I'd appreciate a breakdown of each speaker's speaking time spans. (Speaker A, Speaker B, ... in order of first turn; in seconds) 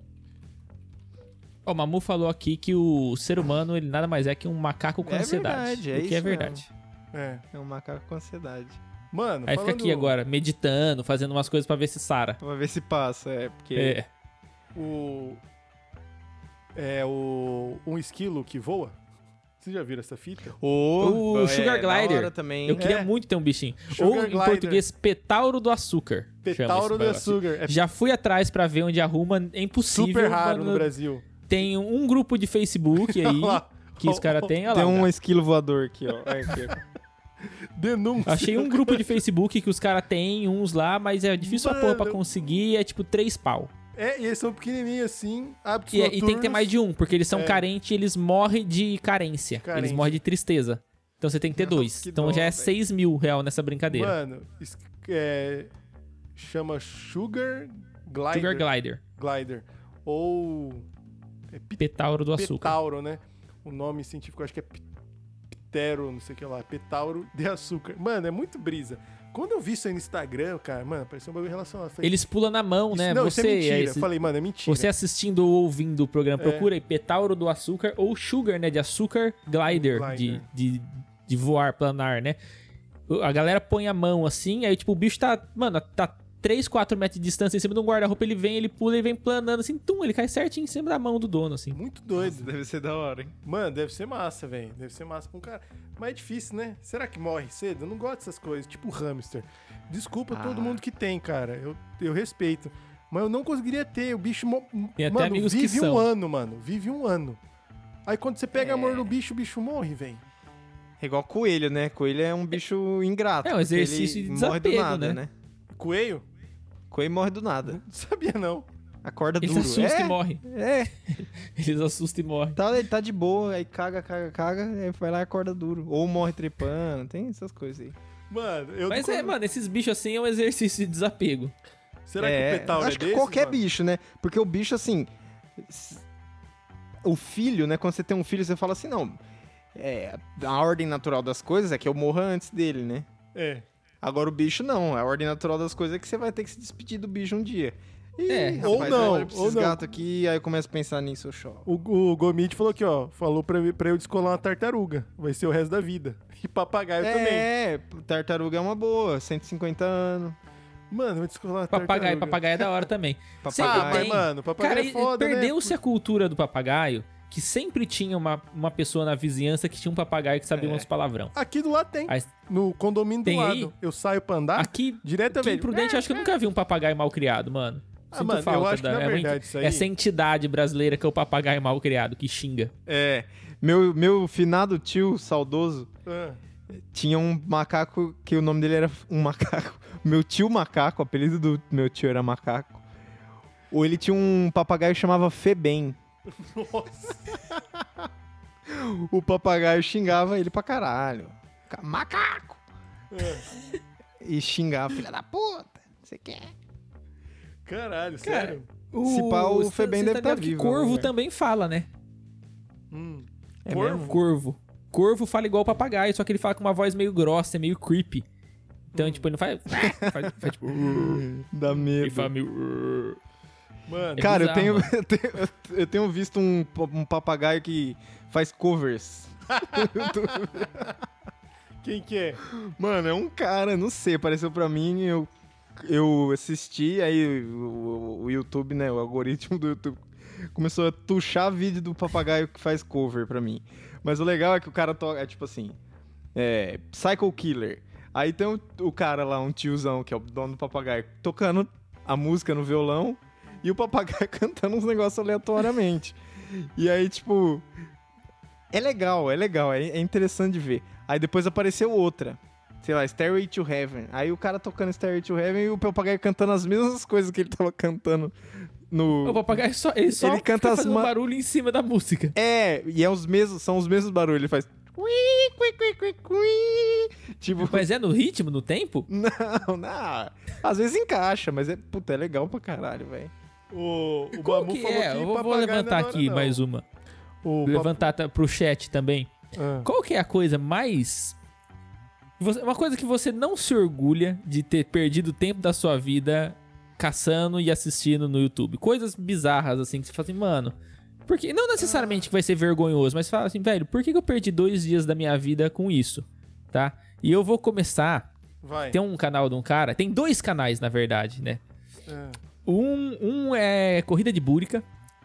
Speaker A: 1.6-6.7, 9.5-12.4, 13.7-14.1, 21.0-30.9, 31.5-35.1, 38.2-43.7, 45.9-54.1, 58.3-59.0, 61.8-62.8, 72.0-74.1, 74.7-82.4, 83.1-91.8, 105.0-106.1, 113.4-115.2, 119.4-120.4, 121.1-122.6, 128.9-131.5, 148.3-149.2, 161.7-171.3, 173.2-173.7, 174.6-182.7, 208.2-211.9, 213.9-218.2, 218.9-221.3, 222.0-223.2, 224.2-224.9, 269.2-272.3, 277.6-279.1, 284.3-286.8, 287.6-289.3, 289.8-291.4, 292.4-300.7, 301.3-308.3, 308.9-311.6, 312.6-314.9
Speaker B: 5.0-6.6, 7.5-8.8, 12.4-14.0, 20.6-22.9, 34.7-36.8, 51.6-52.7, 92.2-93.3, 100.3-100.8, 108.5-109.1, 111.0-115.3, 116.9-117.8, 119.0-120.9, 122.5-128.0, 132.2-136.0, 137.0-139.2, 139.7-143.1, 144.0-151.7, 157.0-160.4, 163.4-164.2, 170.5-170.9, 182.8-185.9, 186.9-192.8, 193.7-196.0, 198.7-202.6, 204.2-206.5, 209.0-211.1, 213.7-214.2, 219.7-222.3, 224.2-230.9, 232.4-245.8, 246.3-257.6, 258.7-268.4, 268.9-269.6, 270.1-271.1, 272.3-277.9, 279.1-283.3
Speaker C: 7.1-7.4, 9.1-10.1, 14.7-15.4, 16.7-18.9, 19.6-20.6, 22.7-23.1, 23.9-24.8, 26.4-27.8, 29.8-31.3, 33.0-34.5, 36.2-36.8, 37.8-39.2, 41.4-42.4, 44.0-46.7, 47.3-47.6, 49.6-50.2, 53.9-55.7, 56.4-60.9, 61.5-64.8, 65.7-72.2, 72.9-74.9, 76.4-76.7, 79.7-80.5, 91.7-92.5, 93.4-107.4, 108.0-110.2, 115.7-116.2, 117.7-118.7, 128.3-129.3, 132.1-133.6, 143.3-143.6, 148.6-149.8, 151.7-157.5, 160.9-162.7, 163.5-165.7, 171.3-176.3, 178.1-179.9, 186.1-186.4, 196.3-197.6, 203.1-203.5, 207.7-208.7, 212.9-214.2, 218.9-219.2, 223.9-224.3, 229.6-230.6, 231.8-232.4, 283.7-286.6, 287.4-288.1, 289.6-289.9, 301.8-302.3, 308.6-309.0, 312.1-312.4